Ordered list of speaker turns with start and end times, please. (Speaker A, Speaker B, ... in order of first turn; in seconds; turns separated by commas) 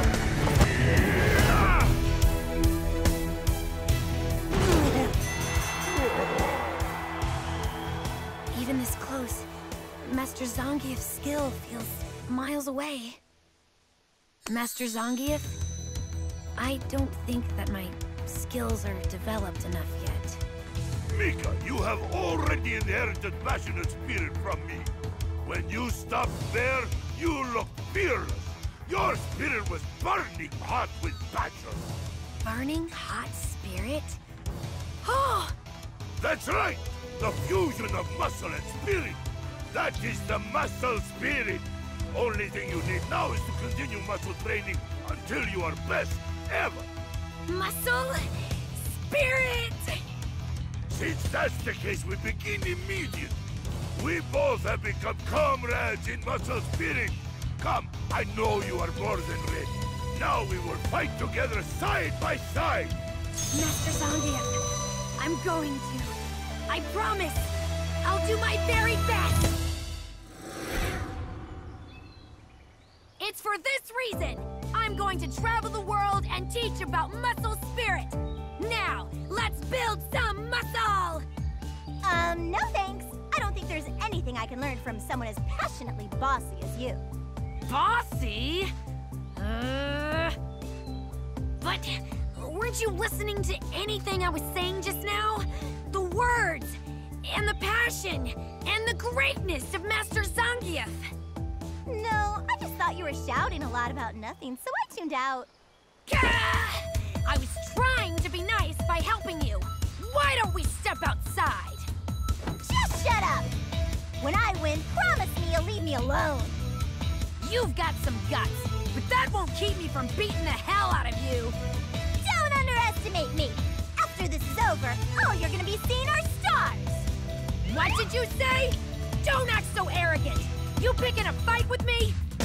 Speaker A: 8.5-9.5, Speaker A: 10.0-13.2, Speaker A: 14.5-15.6, Speaker A: 16.6-20.4, Speaker B: 21.1-24.9, Speaker B: 25.4-31.9, Speaker A: 32.4-34.2, Speaker A: 35.0-35.5, Speaker B: 36.2-39.2, Speaker B: 39.7-46.9, Speaker A: 47.5-50.0, Speaker B: 50.9-53.4, Speaker B: 54.0-63.0, Speaker A: 63.5-64.6, Speaker A: 65.2-66.1, Speaker A: 66.7-69.5, Speaker A: 73.2-81.2, Speaker C: 82.0-87.0, Speaker A: 87.6-88.7, Speaker A: 89.3-90.4, Speaker A: 91.6-101.1, Speaker C: 101.9-105.5, Speaker A: 106.1-111.9, Speaker C: 112.6-113.5, Speaker C: 114.2-116.6, Speaker A: 117.4-121.6, Speaker C: 122.2-127.1, Speaker A: 127.6-132.2